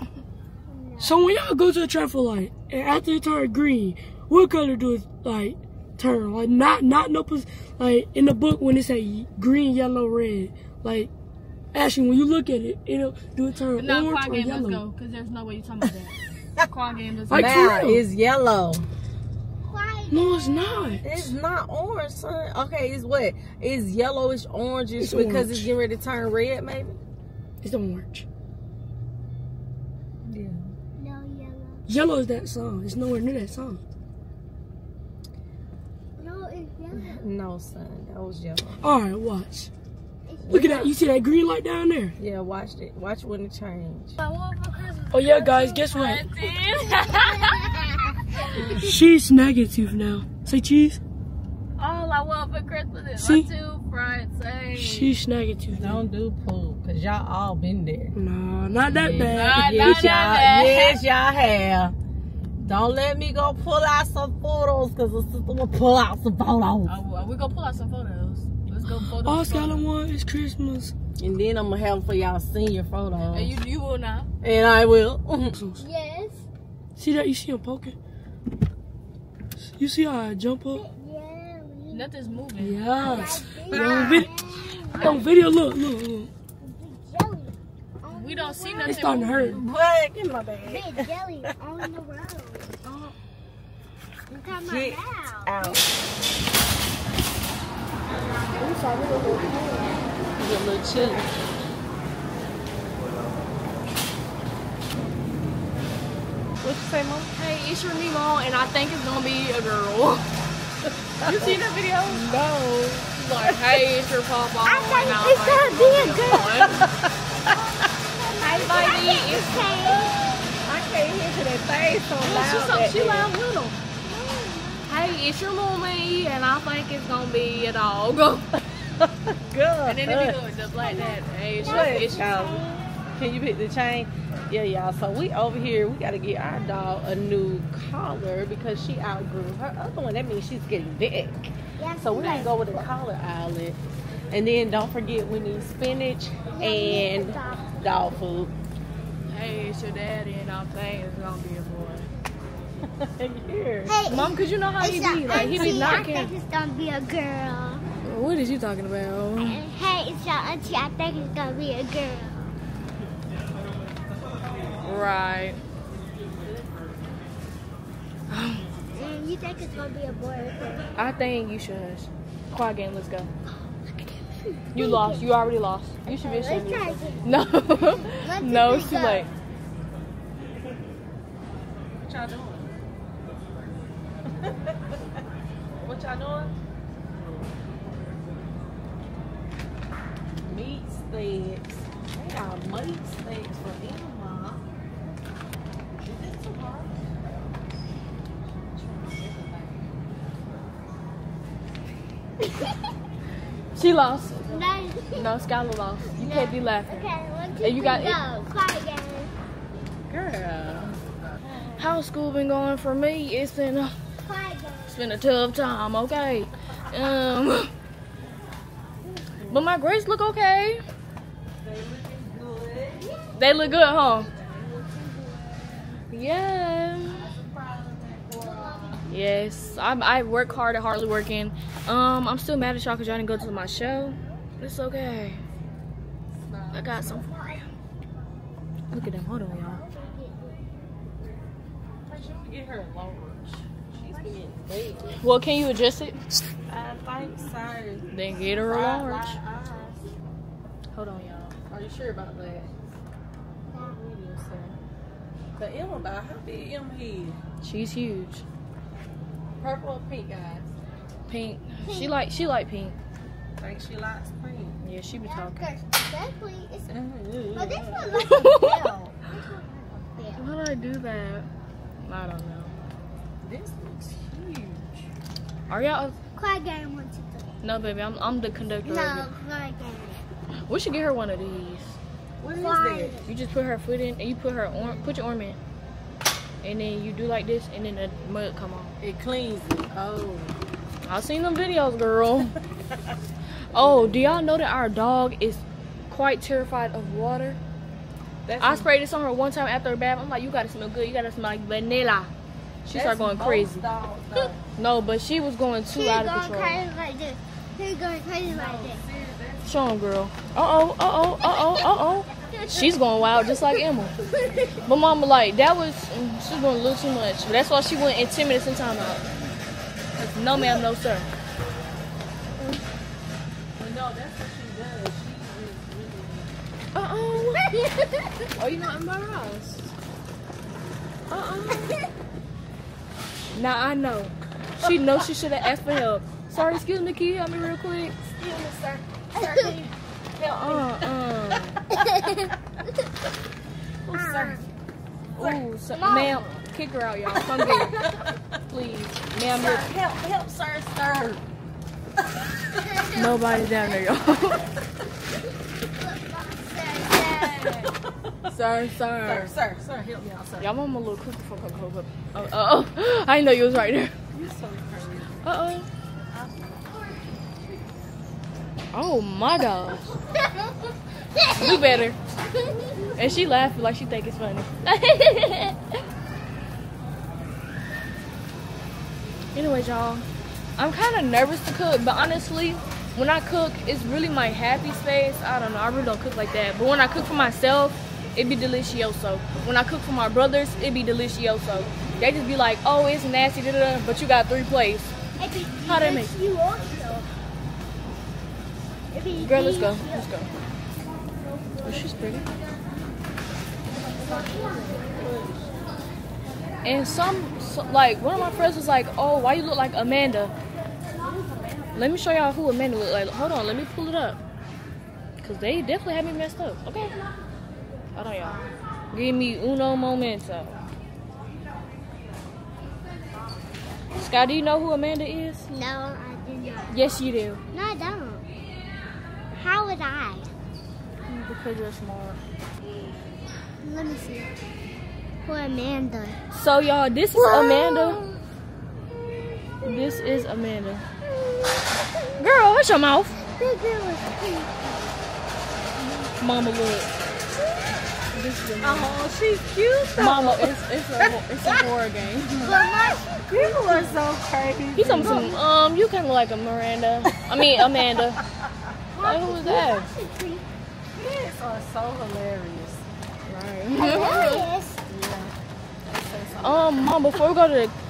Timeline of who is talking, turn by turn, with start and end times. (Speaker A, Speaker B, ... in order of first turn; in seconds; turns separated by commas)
Speaker A: 0.7-1.4, Speaker B: 1.0-11.1, Speaker B: 11.7-14.8, Speaker C: 13.8-17.7, Speaker B: 17.3-18.0, Speaker D: 17.3-18.9, Speaker A: 19.6-21.0, Speaker B: 20.1-21.3, Speaker D: 21.0-27.0, Speaker B: 25.0-25.7, Speaker B: 27.6-28.2, Speaker D: 30.2-30.7, Speaker A: 31.0-31.9, Speaker B: 31.9-33.8, Speaker A: 36.2-37.2, Speaker D: 36.9-38.8, Speaker B: 38.8-39.7, Speaker A: 40.3-40.9, Speaker D: 40.4-40.9, Speaker B: 40.5-42.2, Speaker D: 42.2-44.2, Speaker C: 44.2-48.5, Speaker B: 45.1-46.6, Speaker A: 46.8-48.7, Speaker D: 48.5-48.9, Speaker B: 48.6-51.0, Speaker C: 51.8-55.1, Speaker B: 53.2-53.5, Speaker B: 54.8-56.0, Speaker D: 55.7-58.2, Speaker B: 58.2-59.9, Speaker D: 58.8-62.0, Speaker C: 59.3-61.0, Speaker D: 62.6-66.9, Speaker C: 66.9-69.9, Speaker B: 68.9-70.9, Speaker D: 71.2-73.5, Speaker C: 73.3-74.3, Speaker D: 74.4-75.6, Speaker B: 75.5-75.8, Speaker A: 75.8-76.5, Speaker B: 77.0-78.0, Speaker B: 79.6-80.8, Speaker A: 80.7-82.4, Speaker C: 81.9-82.8, Speaker B: 82.6-84.3, Speaker A: 83.0-85.3, Speaker D: 83.7-84.3, Speaker C: 84.9-85.3, Speaker B: 85.0-86.3, Speaker A: 86.6-89.5, Speaker C: 88.1-89.6, Speaker B: 88.8-89.6, Speaker D: 89.4-91.0, Speaker A: 90.6-92.8, Speaker C: 92.8-93.1, Speaker A: 94.3-95.8, Speaker D: 94.5-95.8, Speaker C: 98.5-100.0, Speaker D: 100.4-101.2, Speaker C: 101.0-101.2, Speaker D: 106.6-107.3, Speaker C: 107.3-110.3, Speaker D: 111.2-113.5, Speaker C: 111.2-112.3, Speaker C: 113.2-116.9, Speaker A: 114.6-116.9, Speaker B: 115.5-115.9, Speaker D: 116.2-117.1, Speaker A: 117.5-120.2, Speaker C: 118.4-119.8, Speaker D: 118.4-119.0, Speaker D: 119.8-123.3, Speaker C: 122.2-123.8, Speaker A: 124.0-125.1, Speaker C: 124.9-128.5, Speaker D: 129.0-130.4, Speaker C: 129.9-132.5, Speaker A: 130.7-132.9, Speaker D: 131.6-143.8, Speaker A: 141.8-142.6, Speaker D: 144.3-148.5, Speaker A: 146.5-147.8, Speaker C: 149.3-152.1, Speaker D: 152.8-154.0, Speaker A: 153.9-157.8, Speaker C: 154.1-156.3, Speaker D: 155.3-155.9, Speaker C: 158.0-159.6, Speaker A: 159.4-162.4, Speaker C: 164.8-165.6, Speaker C: 168.3-168.7, Speaker A: 168.9-170.9, Speaker C: 171.0-173.3, Speaker A: 174.2-175.3, Speaker C: 174.7-179.3, Speaker A: 176.1-179.3, Speaker D: 182.0-182.7, Speaker D: 184.3-185.2, Speaker D: 185.8-186.5, Speaker D: 187.5-188.2, Speaker D: 190.4-194.6, Speaker D: 196.0-197.6, Speaker D: 198.6-200.0, Speaker C: 203.8-207.1, Speaker A: 204.4-205.3, Speaker A: 206.1-209.3, Speaker C: 207.6-208.2, Speaker D: 210.1-212.0, Speaker C: 211.8-213.9, Speaker A: 214.2-215.1, Speaker C: 214.9-217.7, Speaker D: 219.1-219.7, Speaker C: 219.5-220.8, Speaker D: 221.6-223.1, Speaker C: 223.3-224.3, Speaker C: 226.1-227.3, Speaker D: 227.1-229.0, Speaker A: 228.4-229.0, Speaker C: 229.1-235.4, Speaker D: 236.3-237.2, Speaker C: 236.7-237.3, Speaker A: 237.2-237.6, Speaker C: 238.9-239.8, Speaker A: 239.5-240.6, Speaker D: 242.1-245.2, Speaker C: 245.2-246.2, Speaker D: 246.7-250.0, Speaker C: 248.1-249.4, Speaker C: 250.9-251.6, Speaker D: 251.7-252.7, Speaker D: 253.7-254.8, Speaker D: 255.6-257.4, Speaker C: 257.6-258.4, Speaker D: 259.6-260.7, Speaker C: 261.3-263.0, Speaker A: 261.8-262.2, Speaker D: 263.6-264.8, Speaker C: 264.8-265.7, Speaker A: 265.2-266.9, Speaker D: 266.9-268.6, Speaker A: 267.5-270.5, Speaker C: 268.1-268.9, Speaker C: 270.4-271.5, Speaker C: 272.0-272.7, Speaker D: 273.4-275.1, Speaker C: 275.7-276.2, Speaker A: 276.4-277.6, Speaker C: 277.6-279.3, Speaker A: 278.8-280.2, Speaker C: 280.7-282.0, Speaker D: 282.4-283.3, Speaker A: 282.6-283.3, Speaker C: 283.3-285.6, Speaker C: 286.6-288.9, Speaker D: 289.0-290.6, Speaker C: 291.0-292.5, Speaker C: 293.7-297.6, Speaker D: 293.7-294.5, Speaker D: 298.5-298.9, Speaker C: 298.6-302.3, Speaker D: 302.9-304.6, Speaker C: 302.9-303.9, Speaker C: 304.8-306.8, Speaker A: 305.9-309.0, Speaker D: 308.4-309.7, Speaker C: 309.6-314.1, Speaker A: 312.3-313.7, Speaker A: 314.5-314.8, Speaker D: 314.5-314.8, Speaker C: 314.9-319.2, Speaker C: 320.2-321.3, Speaker D: 323.8-326.5, Speaker C: 326.9-329.7, Speaker D: 329.3-329.8, Speaker C: 331.3-331.9, Speaker C: 333.5-338.2, Speaker D: 338.3-341.1, Speaker A: 339.4-339.8, Speaker C: 340.4-341.8, Speaker A: 341.9-342.6, Speaker D: 344.1-344.7, Speaker A: 344.1-344.6, Speaker C: 345.4-348.0, Speaker A: 345.9-346.4, Speaker A: 347.6-348.2, Speaker C: 348.7-349.9, Speaker D: 348.8-351.4, Speaker A: 352.7-354.0, Speaker C: 353.2-354.6, Speaker A: 355.9-357.9, Speaker C: 357.2-357.9, Speaker C: 358.5-359.5, Speaker D: 359.2-360.7, Speaker C: 360.6-364.1, Speaker D: 364.3-365.5, Speaker C: 365.4-365.9, Speaker C: 368.9-370.2, Speaker A: 371.4-372.1, Speaker C: 371.6-372.2, Speaker A: 372.6-373.1, Speaker C: 373.1-376.0, Speaker C: 379.6-380.2, Speaker C: 380.8-395.1, Speaker A: 395.4-397.3, Speaker C: 395.9-396.3, Speaker A: 399.1-400.3, Speaker C: 399.4-400.5, Speaker C: 401.8-402.4, Speaker D: 404.2-404.6, Speaker A: 404.3-405.4, Speaker C: 406.8-410.5, Speaker C: 411.9-414.4, Speaker C: 415.4-417.2, Speaker C: 418.2-420.8, Speaker C: 424.1-425.7, Speaker A: 425.7-427.0, Speaker C: 426.9-427.6, Speaker A: 427.7-428.4, Speaker A: 429.5-430.5, Speaker C: 431.3-432.4, Speaker A: 433.8-434.6, Speaker A: 435.4-436.4, Speaker C: 436.5-438.2, Speaker A: 437.4-438.4, Speaker C: 439.8-441.1, Speaker C: 442.4-443.4, Speaker A: 443.5-445.1, Speaker C: 446.4-447.1, Speaker C: 448.3-449.2, Speaker D: 448.8-450.7, Speaker C: 450.2-452.6, Speaker D: 452.5-452.8, Speaker A: 452.6-454.2, Speaker D: 453.5-455.5, Speaker C: 455.0-458.4, Speaker A: 455.2-455.6, Speaker D: 457.6-458.9, Speaker A: 459.1-460.7, Speaker C: 459.2-460.1, Speaker D: 461.2-463.1, Speaker C: 463.5-464.7, Speaker A: 464.0-465.0, Speaker D: 465.1-465.5, Speaker D: 466.1-466.9, Speaker C: 466.6-467.9